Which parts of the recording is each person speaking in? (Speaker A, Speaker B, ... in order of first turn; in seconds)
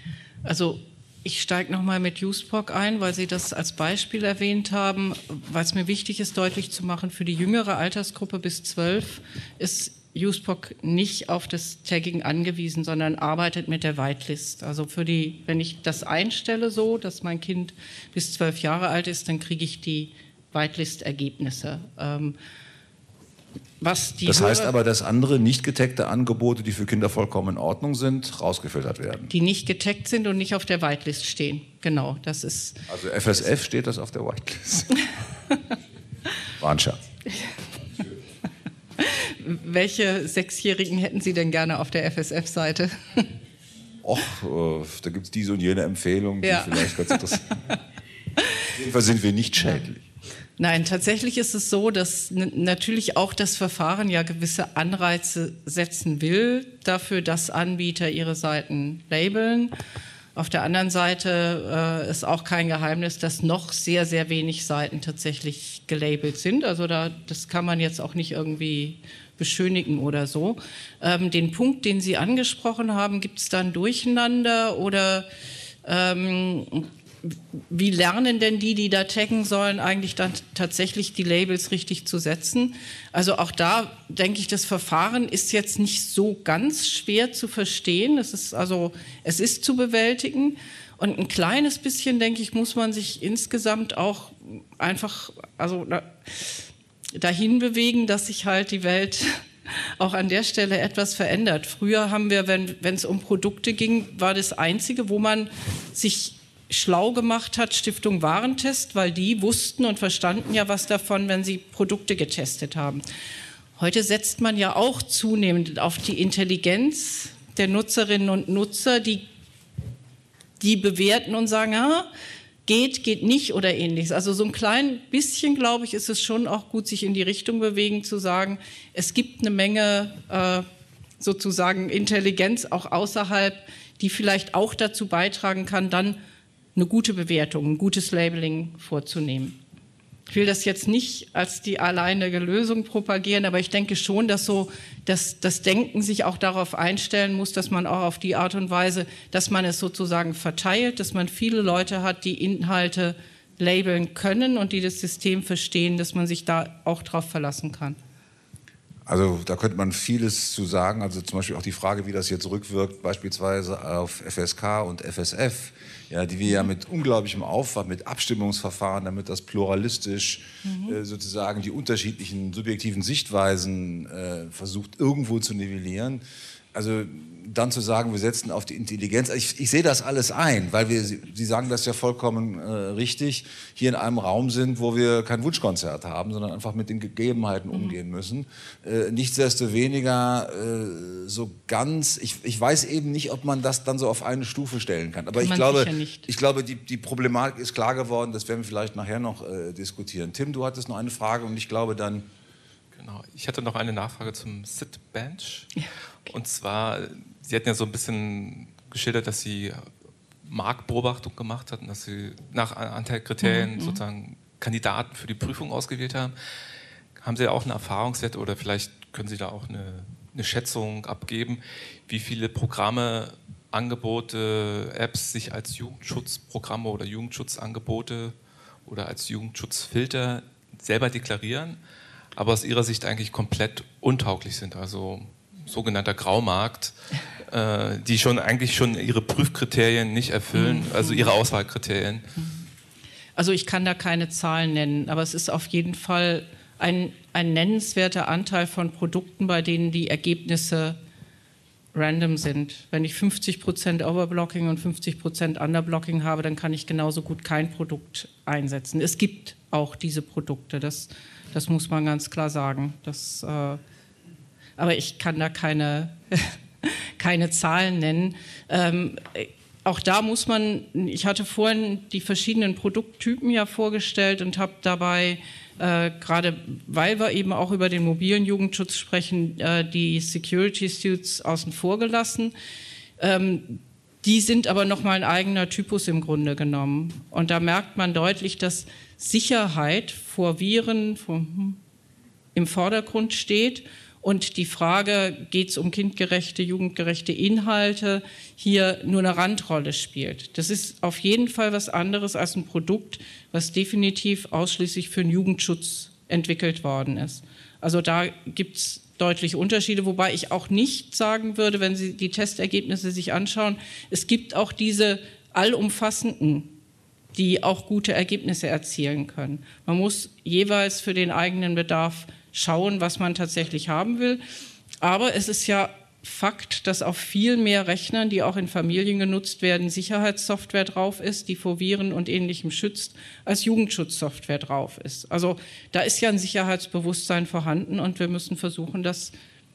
Speaker A: 0.4-22.4, 23.8-24.7, 29.3-32.8, 39.0-43.3, 46.4-46.9, 50.6-59.7, 60.3-75.3, 75.8-113.0, 113.8-119.2, 120.6-122.1, 122.7-130.7, 131.2-136.2, 136.8-139.6, 140.3-158.0, 170.6-171.0, 187.7-188.0, 195.4-196.3, 205.8-206.3, 213.4-214.0, 240.5-241.3, 243.3-251.0, 251.9-263.8, 264.8-282.5, 283.2-291.8, 292.5-316.7, 317.3-324.4, 325.0-339.3
Speaker B: 24.2-29.3, 32.9-35.1, 36.5-37.0, 44.0-47.6, 48.6-50.1, 159.1-176.2, 176.7-202.2
Speaker C: 202.9-205.7, 206.3-209.9, 210.4-216.3, 217.2-228.3, 228.8-231.8, 232.3-242.3